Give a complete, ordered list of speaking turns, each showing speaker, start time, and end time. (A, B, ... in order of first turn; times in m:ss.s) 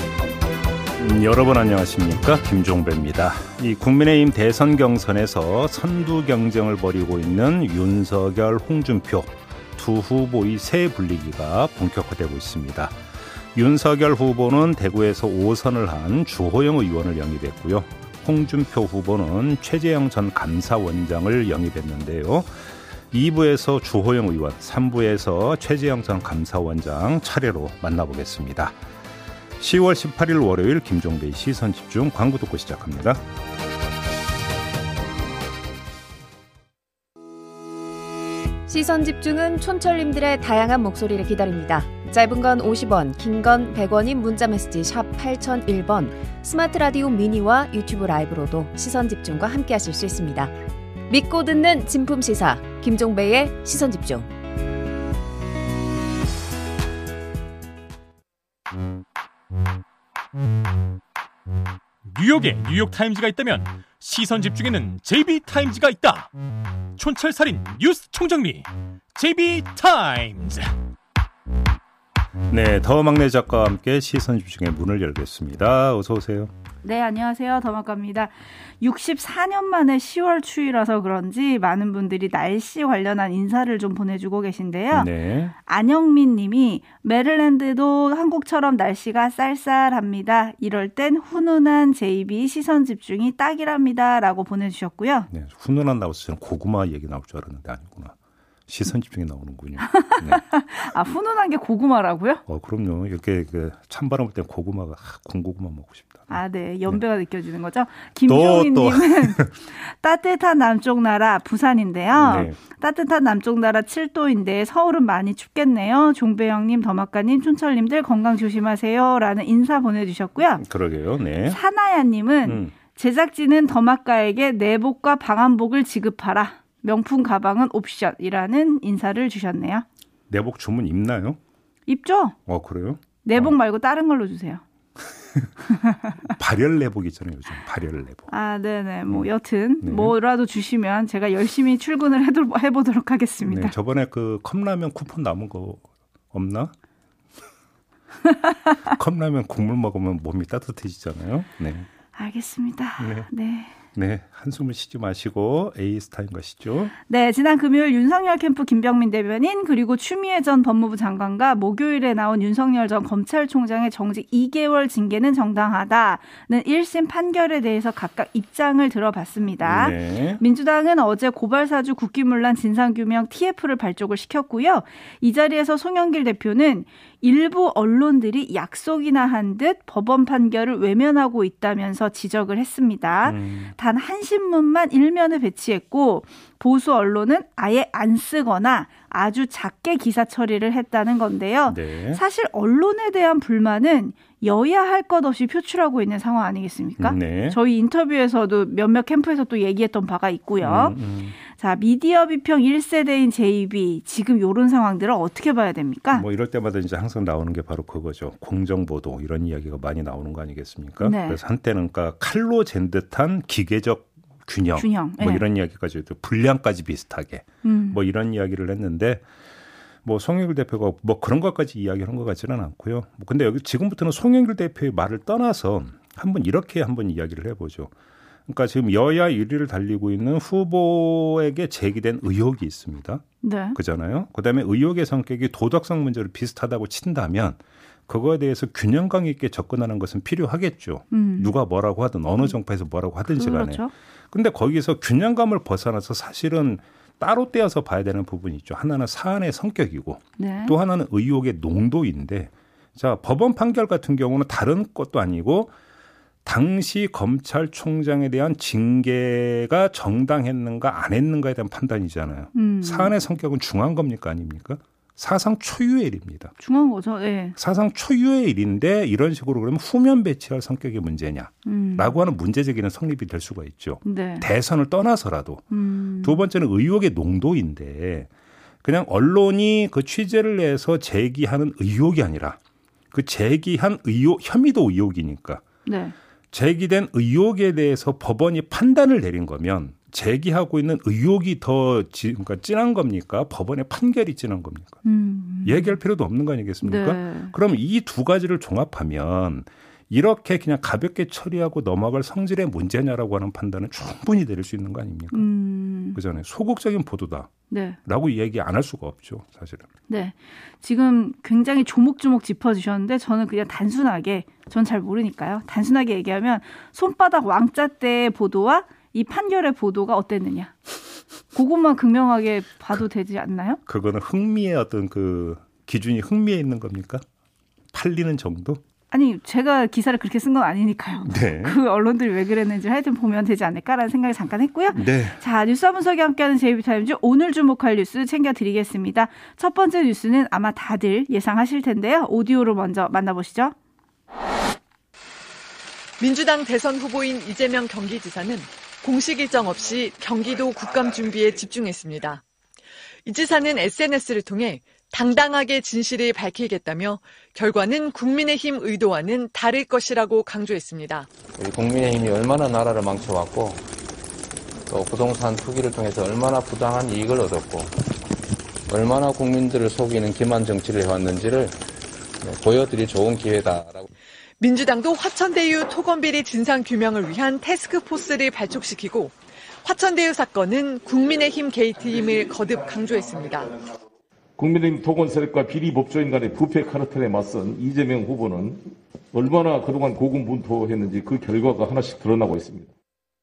0:01.0-0:13.0 A
0:13.5-0:28.7 A
0:29.6-0:33.2 A
0:38.7-0:50.5 B
0:51.1-0:54.3 B
1:02.1-1:06.3 C
1:07.0-1:10.8 C
1:12.5-1:16.5 A
1:16.8-1:35.3 D
1:24.9-1:25.5 A
1:35.3-1:38.1 A
1:38.7-1:40.4 A
1:40.3-1:42.4 D
1:42.5-1:47.0 A
1:46.3-2:00.6 D
1:48.3-1:49.5 A
1:52.1-1:52.6 A
2:00.5-2:01.6 A
2:01.4-2:09.8 D
2:02.4-2:02.7 A
2:10.3-2:11.4 A
2:11.8-2:12.4 D
2:12.4-2:13.5 A
2:13.2-2:14.6 D
2:16.3-2:18.3 A
2:18.3-2:23.7 D
2:19.8-2:20.1 A
2:23.4-2:26.7 A
2:28.8-2:31.9 A
2:32.1-2:33.7 D
2:33.0-2:33.3 A
2:33.9-2:36.9 A
2:37.1-3:26.2 D
2:49.6-2:50.4 A
3:03.2-3:03.7 A
3:11.6-3:12.2 A
3:17.0-3:17.6 A
3:20.6-3:21.4 A
3:26.1-3:39.2 A
3:31.0-3:31.4 D
3:34.8-3:35.4 D
3:37.6-3:38.0 D
3:40.0-3:47.9 A
3:48.5-3:53.2 A
3:53.4-3:53.8 D
3:53.7-4:15.7 A
4:01.1-4:01.5 D
4:03.3-4:03.9 D
4:10.4-4:10.8 D
4:16.4-4:26.5 A
4:22.5-4:23.1 D
4:26.6-4:27.6 D
4:27.6-4:35.6 A
4:31.6-4:32.2 D
4:34.0-4:34.5 D
4:35.7-4:36.4 D
4:36.2-4:38.3 A
4:38.8-4:42.6 A
4:43.1-4:45.6 A
4:45.8-4:46.1 D
4:46.5-4:55.0 A
4:55.0-4:56.0 D
4:55.6-5:05.5 A
4:56.8-4:57.5 D
5:05.3-5:06.2 D
5:06.1-5:07.5 A
5:07.7-5:08.0 D
5:08.0-5:09.9 A
5:10.1-5:20.7 D
5:21.5-5:23.8 D
5:23.8-5:27.2 A
5:27.9-5:28.8 A
5:29.1-5:43.7 D
5:31.2-5:31.8 A
5:34.9-5:35.4 A
5:46.2-5:52.4 E
5:53.2-6:01.3 E
6:01.6-6:03.8 F
6:04.9-6:07.9 F
6:08.9-6:11.7 F
6:12.4-6:14.1 F
6:14.6-6:23.8 E
6:24.6-6:32.9 G